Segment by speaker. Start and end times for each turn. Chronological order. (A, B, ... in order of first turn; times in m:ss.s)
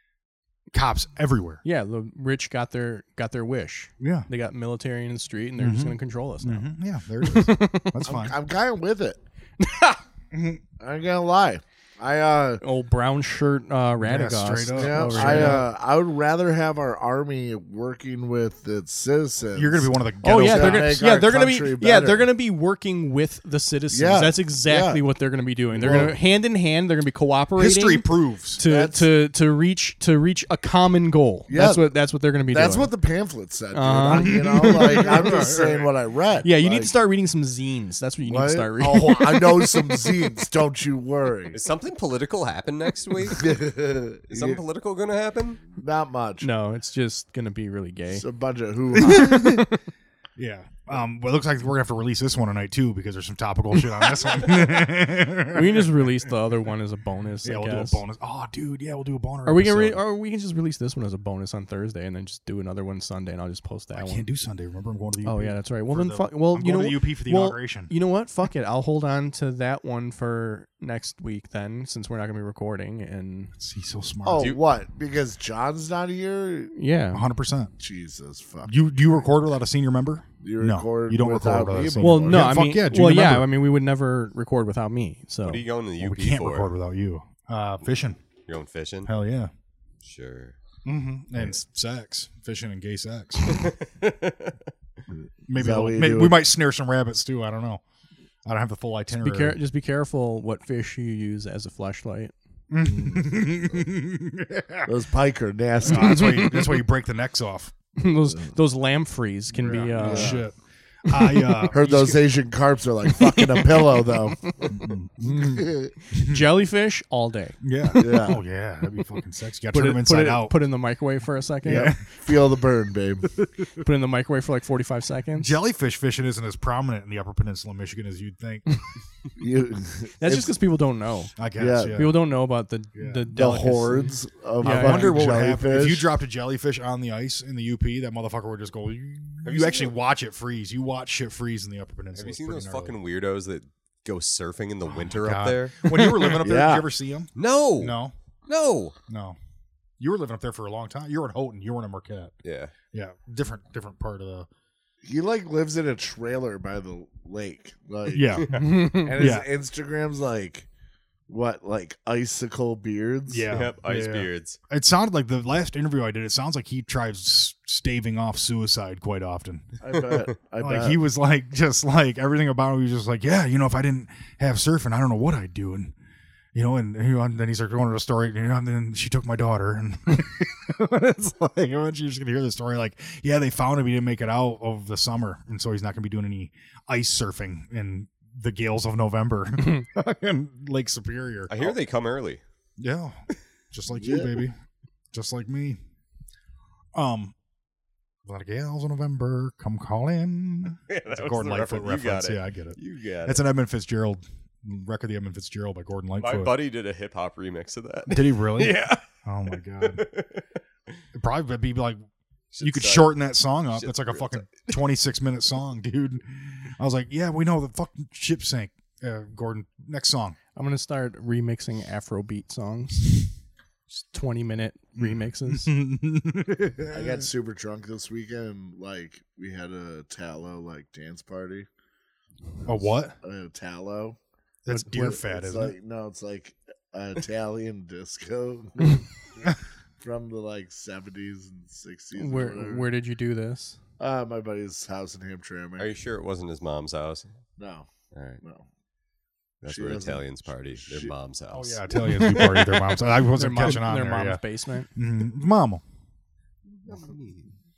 0:00.7-0:01.6 A
0:01.6-0:08.0 B
0:04.0-0:04.3 A
0:05.6-0:08.3 A
0:08.0-0:09.2 C
0:09.6-0:10.0 B
0:10.3-0:10.6 A
0:10.8-0:12.6 C
0:12.6-0:15.6 B
0:14.0-0:15.7 A
0:14.7-0:22.2 C
0:19.5-0:21.0 A
0:20.2-0:32.9 B
0:23.9-0:25.0 C
0:25.8-0:26.1 C
0:25.8-0:26.2 A
0:27.6-0:28.6 A
0:28.6-0:29.1 C
0:31.5-0:31.9 C
0:32.5-0:36.9 C
0:33.7-0:35.1 B
0:34.2-0:35.9 A
0:36.4-0:39.7 B
0:38.2-0:41.6 C
0:41.5-0:43.6 D
0:43.3-0:44.6 C
0:44.3-0:45.6 D
0:45.7-0:46.5 C
0:46.4-0:48.2 B
0:48.1-0:49.4 C
0:49.0-0:49.8 B
0:49.0-0:49.6 A
0:50.4-0:56.3 A
0:55.4-0:58.0 B
0:57.4-1:00.0 A
0:59.4-1:04.2 B
1:03.9-1:07.9 A
1:05.2-1:13.5 B
1:13.6-1:14.5 A
1:14.2-1:16.7 C
1:16.7-1:17.2 B
1:17.1-1:17.7 A
1:17.8-1:18.7 C
1:18.6-1:23.5 A
1:20.4-1:22.5 C
1:22.0-1:25.6 B
1:25.4-1:26.7 D
1:26.0-1:28.2 A
1:28.5-1:29.1 D
1:29.0-1:29.5 A
1:30.0-1:30.5 D
1:30.8-1:33.7 A
1:33.4-1:34.5 D
1:35.5-1:37.8 A
1:35.5-1:36.4 C
1:38.4-1:39.6 A
1:39.1-1:42.3 B
1:42.7-1:44.9 A
1:42.8-1:43.8 C
1:44.8-1:46.4 C
1:45.8-1:47.7 A
1:45.8-1:46.8 B
1:48.0-1:50.4 B
1:49.6-1:52.2 A
1:49.6-1:50.4 C
1:51.1-1:51.7 B
1:51.7-1:54.7 C
1:53.2-1:54.7 B
1:54.7-1:56.5 A
1:55.2-1:55.9 C
1:56.1-1:58.0 B
1:57.6-2:00.6 A
1:58.0-1:58.4 C
1:59.7-2:01.9 B
2:01.6-2:02.3 A
2:01.6-2:03.4 C
2:03.8-2:05.6 B
2:05.4-2:08.6 A
2:09.4-2:10.5 C
2:10.2-2:11.3 B
2:11.4-2:12.2 A
2:11.6-2:12.0 C
2:11.9-2:15.2 B
2:12.9-2:13.2 A
2:13.3-2:16.0 C
2:14.6-2:22.9 A
2:19.4-2:19.9 D
2:22.1-2:26.1 D
2:24.9-2:28.1 A
2:26.4-2:26.8 C
2:27.4-2:27.9 D
2:28.5-2:28.9 D
2:29.1-2:29.4 A
2:30.0-2:32.3 A
2:32.4-2:32.7 D
2:32.9-2:34.5 A
2:35.0-2:40.7 C
2:38.1-2:39.5 A
2:38.4-2:38.7 D
2:38.5-2:39.4 B
2:41.3-2:43.5 C
2:43.3-2:50.0 A
2:43.5-2:44.6 D
2:49.8-2:51.0 C
2:50.6-2:55.9 A
2:56.5-3:11.8 A
3:11.5-3:12.4 D
3:12.8-3:14.6 A
3:14.0-3:14.4 C
3:15.1-3:15.8 A
3:16.9-3:17.3 A
3:18.2-3:26.5 A
3:20.9-3:23.4 D
3:26.2-3:29.0 D
3:28.1-3:30.0 A
3:29.8-3:30.4 D
3:31.1-3:32.0 A
3:32.6-3:33.0 C
3:32.6-3:40.4 A
3:33.8-3:34.8 D
3:40.6-3:43.3 B
3:43.9-3:45.7 B
3:45.0-3:47.2 A
3:46.9-3:51.7 C
3:52.6-3:53.2 A
3:53.2-3:54.2 C
3:54.6-3:55.7 A
3:54.7-3:55.2 B
3:54.9-3:59.0 C
4:00.0-4:02.9 C
4:02.1-4:03.8 B
4:04.0-4:05.9 C
4:05.8-4:07.3 D
4:07.6-4:07.9 C
4:08.1-4:08.4 D
4:09.6-4:12.6 D
4:09.6-4:11.1 C
4:11.5-4:14.4 A
4:12.1-4:12.6 B
4:13.2-4:14.9 B
4:14.9-4:15.8 A
4:16.8-4:17.5 D